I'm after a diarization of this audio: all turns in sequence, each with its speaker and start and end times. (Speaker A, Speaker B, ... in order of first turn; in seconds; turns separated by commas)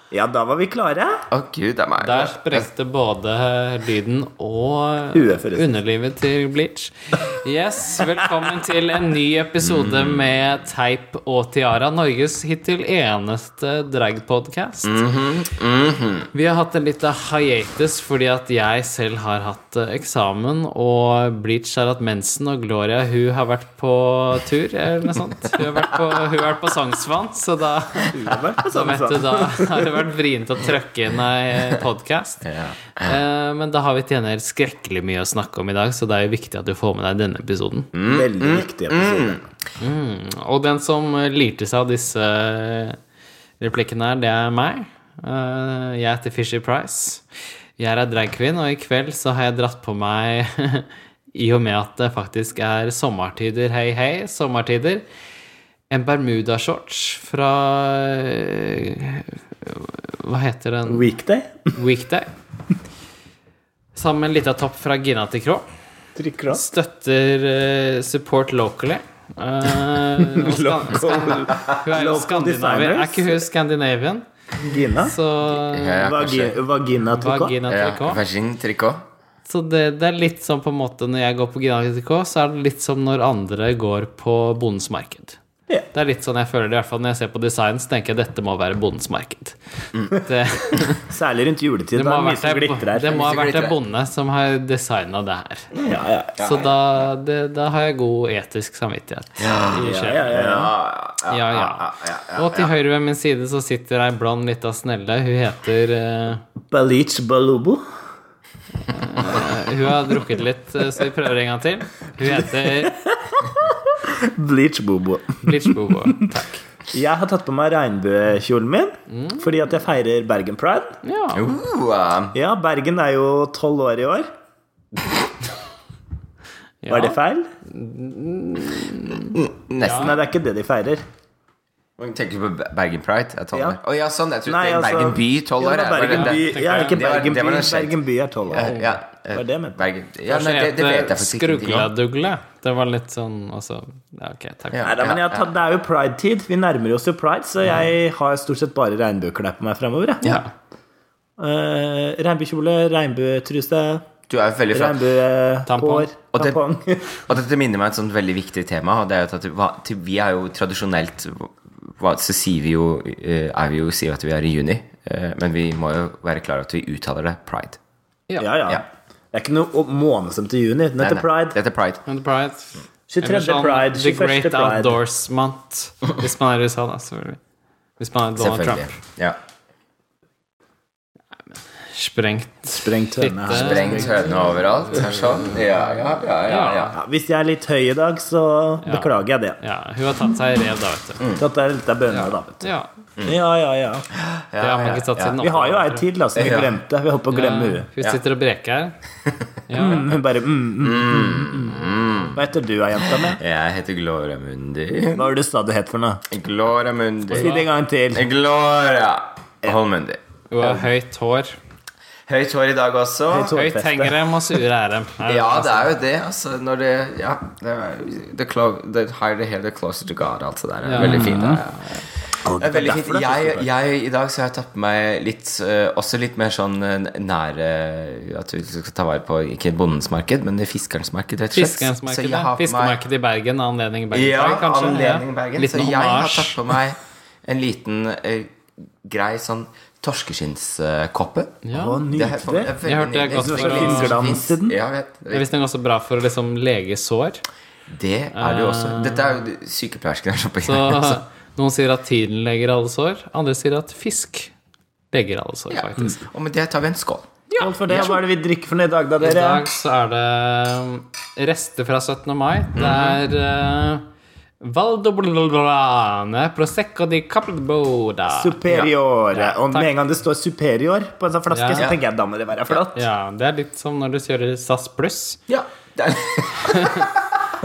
Speaker A: 0.1-1.2, Speaker B: 1.3-2.7, Speaker C: 2.0-15.0, Speaker A: 5.1-5.7, Speaker B: 9.6-10.3, Speaker B: 14.8-16.3, Speaker C: 16.3-37.9, Speaker A: 28.1-29.9, Speaker B: 32.4-33.2, Speaker B: 37.9-39.4, Speaker A: 38.0-39.4, Speaker C: 39.8-43.0, Speaker C: 43.6-47.3, Speaker C: 47.8-55.0, Speaker C: 55.9-61.1, Speaker A: 60.9-61.7, Speaker C: 61.7-62.3, Speaker C: 63.9-65.7, Speaker A: 66.2-66.6, Speaker C: 66.5-74.2, Speaker A: 70.2-73.4, Speaker A: 74.6-75.1, Speaker C: 75.0-76.1, Speaker B: 75.5-76.5, Speaker A: 76.0-77.5, Speaker C: 77.1-78.2, Speaker B: 77.7-79.0, Speaker C: 79.5-85.4, Speaker C: 85.9-91.0, Speaker A: 91.0-93.2, Speaker C: 91.9-95.7, Speaker B: 93.1-93.7, Speaker A: 95.8-96.4, Speaker B: 96.4-96.7, Speaker C: 96.4-100.4, Speaker B: 99.4-102.7, Speaker A: 99.7-100.7, Speaker C: 101.2-106.4, Speaker A: 106.7-107.8, Speaker C: 108.9-113.0, Speaker A: 112.6-116.3, Speaker C: 115.4-116.6, Speaker A: 116.9-121.0, Speaker C: 119.1-119.4, Speaker C: 121.0-121.4, Speaker B: 121.3-122.3, Speaker A: 122.3-124.3, Speaker C: 126.8-130.2, Speaker A: 126.9-127.5, Speaker B: 129.3-130.2, Speaker A: 129.9-131.0, Speaker B: 132.0-137.9, Speaker A: 133.5-133.8, Speaker A: 134.4-139.8, Speaker C: 136.0-137.0, Speaker B: 138.5-141.9, Speaker C: 140.3-144.9, Speaker B: 144.7-145.4, Speaker A: 144.8-150.4, Speaker C: 150.2-150.5, Speaker A: 151.4-154.0, Speaker B: 154.3-155.0, Speaker A: 154.7-157.2, Speaker C: 155.7-156.1, Speaker B: 156.3-156.6, Speaker B: 157.3-167.8, Speaker A: 168.4-171.6, Speaker B: 171.0-172.0, Speaker C: 172.1-177.4, Speaker A: 173.1-175.0, Speaker C: 178.0-178.9, Speaker B: 178.4-179.4, Speaker C: 181.8-184.2, Speaker A: 182.7-184.4, Speaker B: 183.5-186.9, Speaker C: 186.4-186.9, Speaker A: 186.9-189.6, Speaker C: 188.8-191.2, Speaker A: 191.4-192.7, Speaker C: 192.1-192.9, Speaker A: 193.2-194.1, Speaker B: 194.1-195.3, Speaker C: 194.6-196.1, Speaker A: 195.4-197.9, Speaker B: 196.3-196.8, Speaker C: 197.3-199.0, Speaker C: 199.7-200.1, Speaker A: 199.8-203.4, Speaker B: 199.9-200.2, Speaker B: 200.8-202.4, Speaker B: 202.9-205.3, Speaker A: 205.2-206.2, Speaker B: 206.3-207.6, Speaker A: 207.3-208.2, Speaker C: 207.4-207.6, Speaker B: 208.1-210.2, Speaker C: 210.5-211.6, Speaker B: 212.3-213.5, Speaker A: 213.3-214.2, Speaker C: 213.5-215.9, Speaker B: 215.3-233.0, Speaker C: 220.8-222.0, Speaker A: 221.0-221.6, Speaker A: 222.4-223.7, Speaker C: 231.5-236.7, Speaker B: 234.1-245.4, Speaker C: 241.6-242.0, Speaker A: 241.7-242.7, Speaker C: 242.8-244.2, Speaker A: 243.4-244.8, Speaker C: 245.3-247.4, Speaker B: 247.9-251.2, Speaker C: 248.3-249.4, Speaker C: 250.6-254.5, Speaker C: 255.1-256.2, Speaker B: 255.7-258.1, Speaker C: 257.6-258.1, Speaker A: 257.6-259.7, Speaker C: 259.2-264.1, Speaker B: 262.8-263.2, Speaker C: 264.6-268.6, Speaker A: 268.3-273.0, Speaker C: 269.3-269.9, Speaker C: 271.5-271.9, Speaker C: 272.9-275.4, Speaker B: 275.5-277.4, Speaker C: 276.6-277.1